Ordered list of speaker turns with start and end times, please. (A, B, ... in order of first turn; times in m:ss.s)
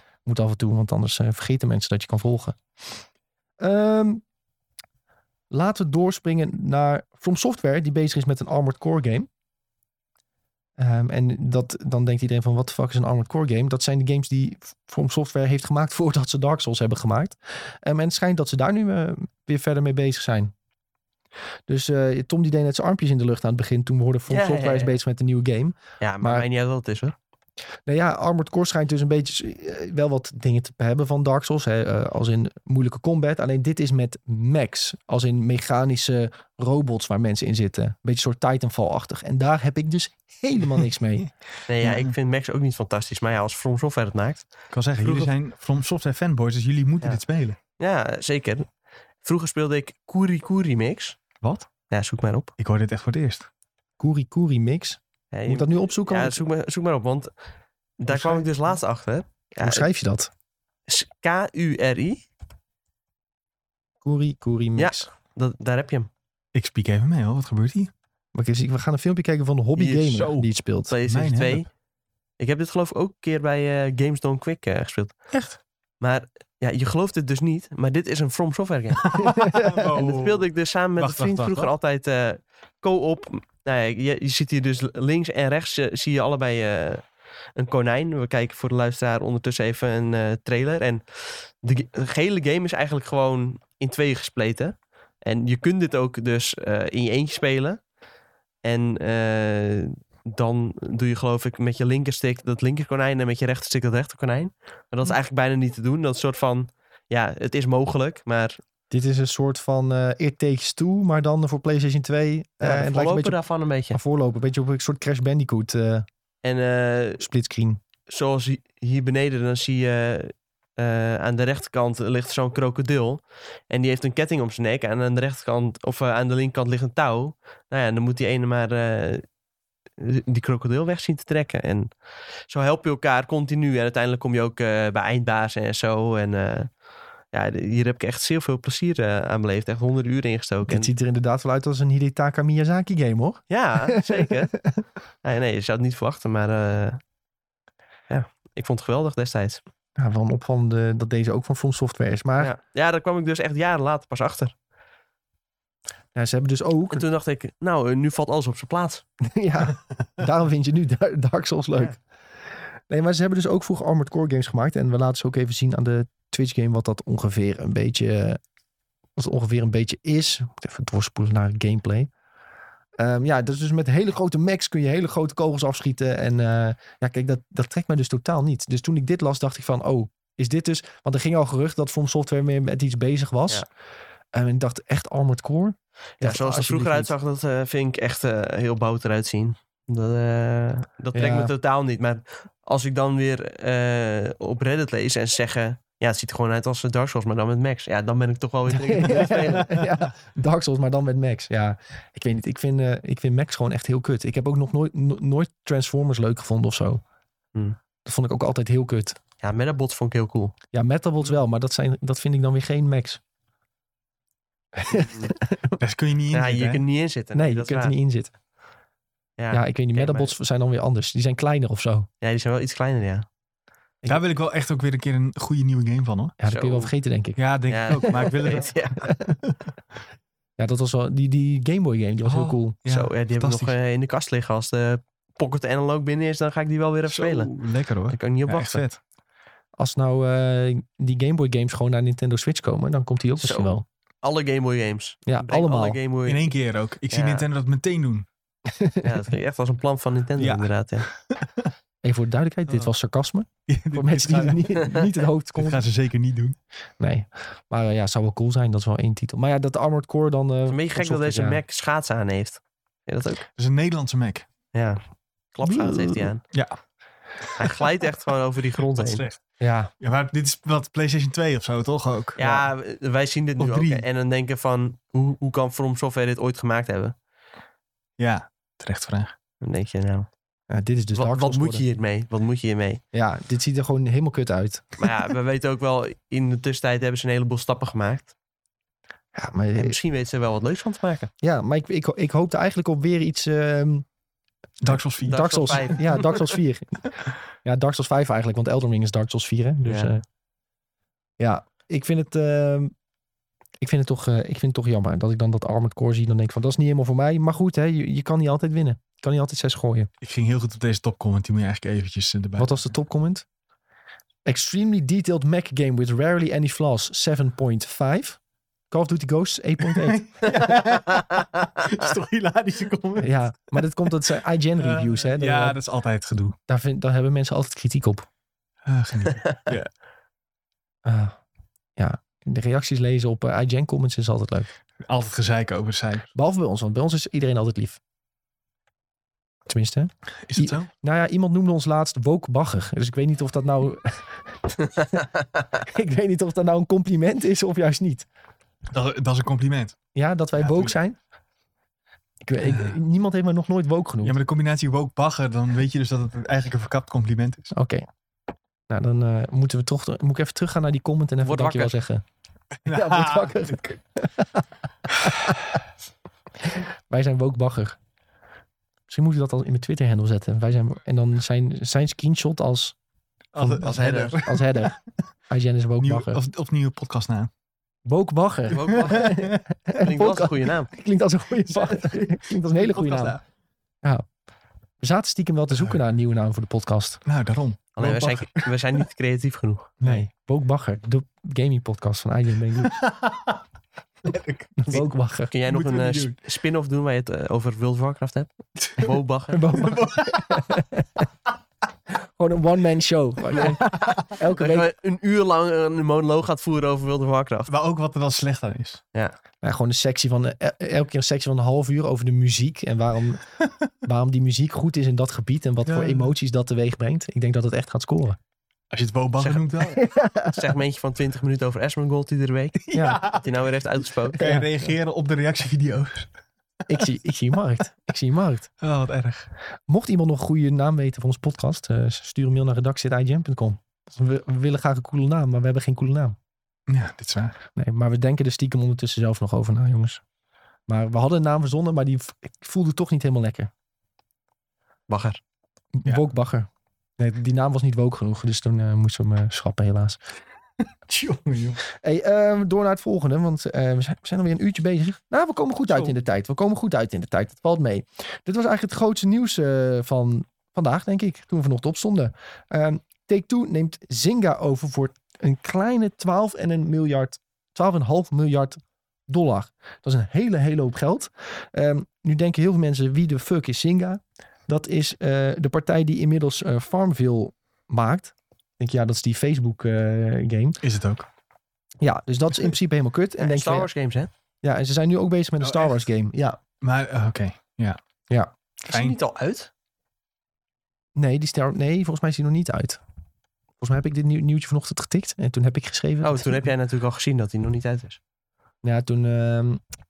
0:00.2-0:02.6 A
0:03.6-0:04.2 A
0:05.5-0:09.3 A
0:10.8-0:20.5 A
0:21.7-0:26.4 A
0:24.3-0:25.0 B
0:26.0-0:27.2 B
0:27.8-0:41.3 A
0:41.7-0:45.3 B
0:41.8-0:42.1 C
0:44.7-0:47.6 C
0:47.8-0:48.7 B
0:49.2-0:51.2 B
0:51.4-0:51.7 C
0:51.9-0:52.5 B
0:52.6-0:53.5 C
0:54.0-0:56.4 A
0:55.3-0:57.3 B
0:58.0-0:59.8 B
0:58.1-0:58.5 A
0:59.6-1:00.3 A
1:00.9-1:02.2 B
1:04.0-1:05.1 A
1:04.8-1:06.1 B
1:06.5-1:07.9 C
1:08.3-1:10.9 A
1:09.8-1:10.2 B
1:10.0-1:10.5 C
1:10.9-1:11.7 B
1:11.0-1:11.6 C
1:12.4-1:15.2 B
1:15.3-1:15.6 C
1:16.0-1:19.3 B
1:19.0-1:21.7 C
1:19.2-1:19.9 A
1:19.9-1:37.8 B
1:38.6-1:48.6 B
1:48.9-1:53.4 A
1:52.6-1:54.0 B
1:53.9-1:56.0 A
1:56.4-1:57.2 B
1:57.2-1:57.8 A
1:58.1-2:09.2 B
2:10.0-2:11.9 B
2:12.5-2:16.7 B
2:17.3-2:20.9 B
2:20.7-2:24.8 A
2:23.5-2:24.5 B
2:25.2-2:27.0 B
2:28.1-2:29.6 B
2:30.0-2:32.5 A
2:32.4-2:34.5 B
2:36.1-2:37.0 A
2:36.9-2:39.0 B
2:39.2-2:42.0 A
2:42.9-2:48.4 A
2:49.2-2:52.1 A
2:53.0-3:03.6 A
3:04.3-3:07.1 A
3:06.2-3:19.8 B
3:11.1-3:11.5 A
3:18.7-3:27.0 A
3:28.0-3:29.2 A
3:29.4-3:30.5 B
3:30.7-3:33.2 A
3:34.7-3:35.8 A
3:34.9-3:35.3 B
3:35.8-3:36.8 C
3:36.3-3:37.9 B
3:37.3-3:38.3 A
3:39.4-3:40.3 B
3:39.5-3:42.1 A
3:42.2-3:43.2 B
3:44.1-3:46.4 C
3:46.4-3:47.4 A
3:46.5-3:46.9 B
3:47.4-3:49.6 C
3:47.7-3:49.0 B
3:48.2-3:49.3 A
3:50.6-3:52.8 A
3:52.2-3:53.7 C
3:52.9-3:57.5 B
3:57.1-3:59.0 C
3:58.1-3:58.8 B
3:59.8-4:03.8 A
4:03.4-4:06.5 B
4:05.3-4:06.0 A
4:06.2-4:08.3 C
4:07.1-4:07.4 B
4:08.7-4:09.2 A
4:09.0-4:11.1 B
4:10.4-4:11.7 C
4:12.0-4:15.8 A
4:13.7-4:15.0 C
4:15.5-4:16.6 C
4:17.0-4:21.6 A
4:20.7-4:23.4 B
4:23.6-4:24.4 C
4:24.7-4:25.0 B
4:25.5-4:26.4 B
4:25.6-4:26.3 A
4:26.5-4:26.8 C
4:27.4-4:27.9 C
4:27.6-4:29.2 B
4:28.9-4:29.4 C
4:29.6-4:29.9 A
4:30.0-4:32.6 C
4:32.4-4:37.2 B
4:33.6-4:34.0 C
4:38.2-4:39.3 C
4:39.6-4:40.3 B
4:40.7-4:41.8 A
4:41.1-4:43.0 B
4:43.1-4:45.1 A
4:45.0-4:48.3 B
4:49.3-4:50.0 A
4:49.7-4:51.3 B
4:51.4-4:54.0 A
4:54.8-4:55.4 C
4:55.2-4:56.5 B
4:55.2-5:00.2 A
4:59.8-5:00.1 B
5:01.4-5:02.9 A
5:03.8-5:10.1 A
5:10.2-5:12.7 C
5:12.6-5:13.4 A
5:14.4-5:18.4 A
5:18.9-5:20.2 A
5:19.9-5:23.4 C
5:23.2-5:25.8 A
5:24.8-5:26.6 C
5:26.7-5:28.3 A
5:28.8-5:29.9 C
5:29.4-5:29.7 B
5:31.0-5:31.4 A
5:32.0-5:34.7 A
5:35.1-5:36.3 C
5:36.3-5:38.0 A
5:39.7-5:48.3 A
5:40.5-5:40.9 C
5:48.9-5:50.0 C
5:50.1-5:51.2 A
5:50.6-5:50.9 C
5:52.4-5:54.4 A
5:52.6-5:53.0 C
5:54.2-5:57.7 C
5:57.7-5:58.0 A
5:58.9-6:02.2 A
6:01.4-6:01.9 B
6:02.8-6:03.8 C
6:02.8-6:05.5 A
6:06.6-6:08.0 A
6:09.1-6:13.0 A
6:13.5-6:14.9 C
6:13.6-6:16.4 A
6:13.9-6:14.3 B
6:16.0-6:17.5 C
6:18.0-6:23.4 A
6:18.7-6:19.3 B
6:19.0-6:19.6 C
6:20.0-6:20.9 B
6:21.6-6:23.4 C
6:25.0-6:27.2 A
6:25.7-6:26.0 C
6:27.2-6:28.7 C
6:28.0-6:29.9 B
6:30.0-6:30.2 C
6:30.0-6:33.0 A
6:32.8-6:33.6 C
6:34.2-6:35.1 C
6:34.8-6:35.5 A
6:35.5-6:39.8 B
6:35.7-6:36.4 C
6:39.5-6:41.3 A
6:39.8-6:40.8 C
6:42.1-6:44.9 A
6:43.6-6:44.2 C
6:44.4-6:47.7 B
6:47.7-6:49.0 C
6:49.6-6:53.4 A
6:54.0-6:58.4 A
6:55.8-6:56.3 C
6:58.9-7:00.0 C
6:59.4-7:04.6 B
6:59.9-7:00.7 A
7:02.8-7:03.6 C
7:02.9-7:03.2 A
7:04.3-7:06.3 C
7:04.4-7:04.7 A
7:06.9-7:08.7 A
7:08.8-7:09.5 C
7:09.9-7:16.4 A
7:16.9-7:17.6 C
7:17.8-7:20.2 A
7:20.9-7:23.7 A
7:25.1-7:25.4 B
7:25.9-7:30.2 A
7:31.1-7:31.8 C
7:31.9-8:00.8 A
8:00.8-8:01.2 C
8:02.0-8:03.9 A
8:03.4-8:04.3 B
8:04.6-8:06.6 A
8:05.6-8:06.0 C
8:06.8-8:08.0 C
8:08.9-8:09.7 B
8:08.9-8:09.2 C
8:11.2-8:13.0 A
8:13.8-8:16.7 A
8:16.2-8:18.2 B
8:18.8-8:19.8 A